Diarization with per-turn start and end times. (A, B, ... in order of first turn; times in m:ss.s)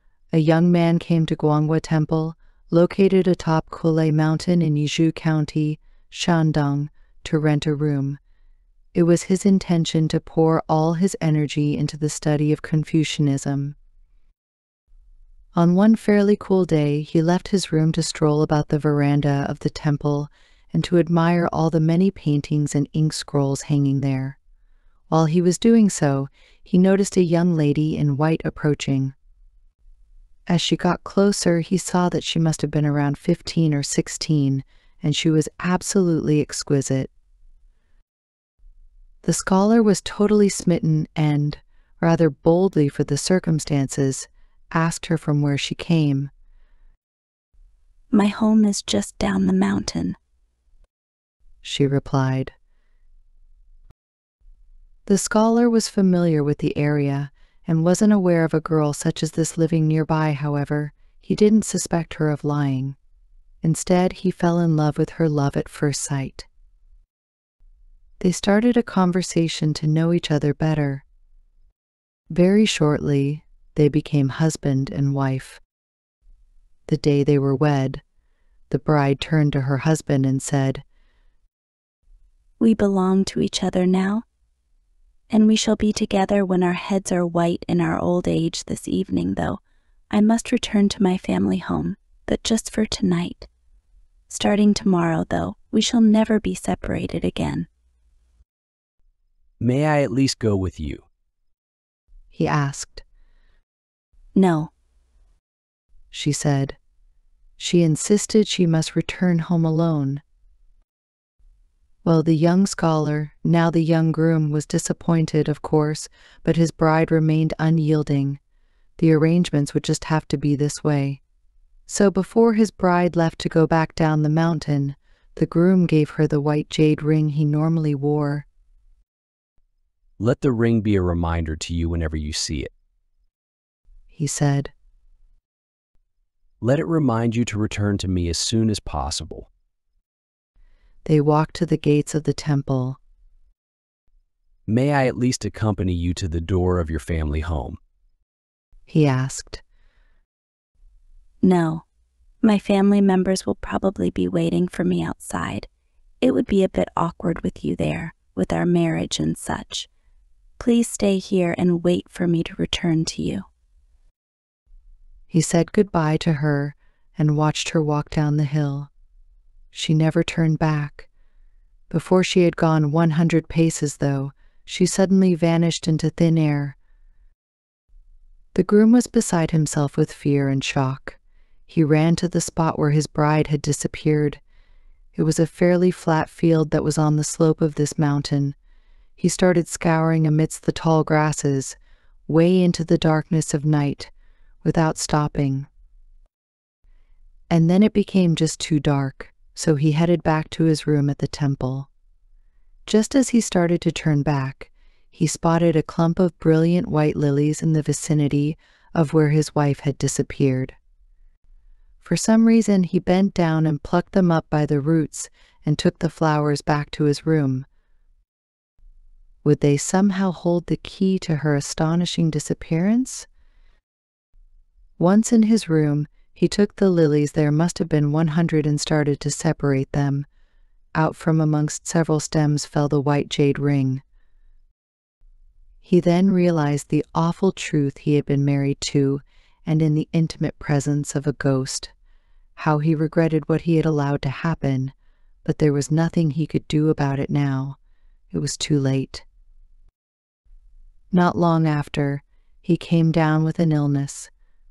0:00.3-0:08.2 A
0:08.9-0:13.8 A
0:15.5-0:24.4 A
0:25.1-0:29.1 A
0:30.5-0:37.1 A
0:39.2-0:46.3 A
0:48.1-0:50.2 B
0:51.6-0:52.5 A
0:55.0-1:03.0 A
1:03.6-1:06.5 A
1:08.2-1:11.0 A
1:12.3-1:15.6 A
1:16.9-1:18.0 A
1:18.7-1:20.8 A
1:22.6-1:24.2 B
1:25.3-1:33.5 B
1:34.3-1:37.7 B
1:39.6-1:41.0 C
1:42.3-1:43.0 A
1:44.3-1:44.7 B
1:46.1-1:46.8 A
1:47.6-1:50.2 A
1:52.0-1:58.4 A
1:59.0-2:01.2 A
2:01.9-2:08.4 A
2:10.2-2:12.7 C
2:14.1-2:14.7 A
2:16.6-2:19.5 C
2:21.0-2:23.0 A
2:24.7-2:27.8 C
2:28.9-2:29.6 A
2:31.4-2:31.8 B
2:32.4-2:35.7 B
2:36.2-2:39.9 B
2:40.6-2:43.5 B
2:45.3-2:48.9 A
2:49.7-2:51.1 A
2:51.9-2:56.8 A
2:58.5-3:04.4 A
3:05.1-3:08.6 A
3:09.2-3:14.1 A
3:14.6-3:15.7 A
3:17.5-3:21.9 A
3:22.8-3:30.8 A
3:32.0-3:37.7 A
3:39.4-3:43.3 A
3:45.0-3:50.3 A
3:50.9-3:54.0 A
3:55.8-4:01.9 A
4:02.6-4:07.8 A
4:08.3-4:09.2 A
4:11.1-4:14.3 A